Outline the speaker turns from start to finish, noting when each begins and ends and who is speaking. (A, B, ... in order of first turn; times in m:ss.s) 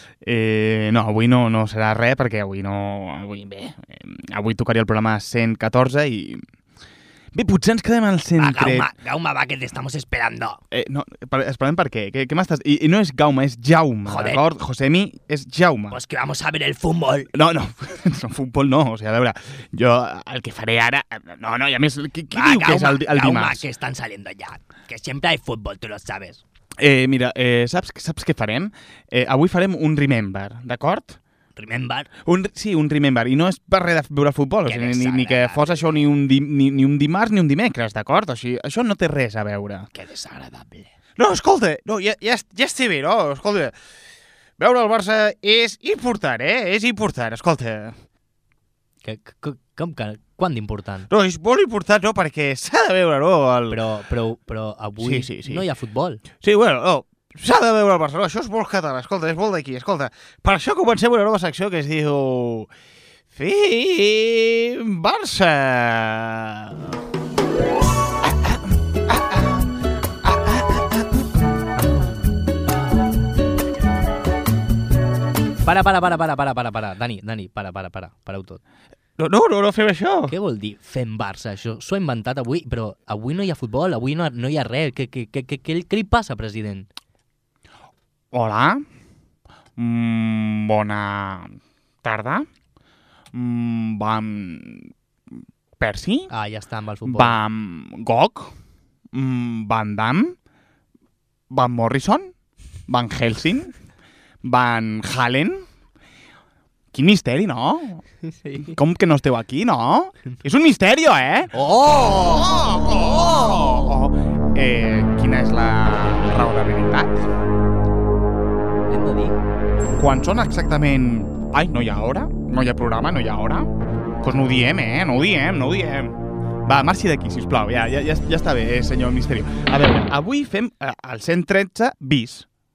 0:00.2-0:06.4 A
0:07.3-0:08.9 A
0:08.4-0:10.6 B
0:10.7-0:16.0 A
0:14.1-0:14.4 B
0:15.9-0:17.3 B
0:17.3-0:23.6 A
0:22.3-0:26.4 B
0:26.8-0:31.2 A
0:31.6-0:32.1 B
0:32.2-0:39.9 A
0:34.6-0:36.0 B
0:39.9-0:40.9 B
0:41.2-0:43.7 A
0:44.6-0:47.9 A
0:49.0-0:51.1 B
0:51.1-0:53.8 A
0:53.7-0:56.2 B
0:55.0-0:55.6 A
0:56.4-1:02.7 A
1:03.3-1:06.9 A
1:08.2-1:09.7 A
1:10.2-1:11.2 A
1:15.6-1:18.6 B
1:19.2-1:20.3 A
1:20.3-1:26.9 B
1:28.3-1:28.8 A
1:29.8-1:32.4 A
1:33.3-1:34.9 A
1:35.8-1:36.3 A
1:36.3-1:37.4 B
1:37.0-1:38.5 A
1:39.1-1:40.4 A
1:41.5-1:42.3 A
1:42.9-1:43.7 A
1:44.4-1:45.6 A
1:46.9-1:48.0 A
1:48.4-1:48.7 B
1:48.6-1:57.1 A
1:51.5-1:52.4 B
1:58.9-1:59.4 B
2:00.0-2:03.7 A
2:04.2-2:06.1 A
2:06.6-2:12.4 A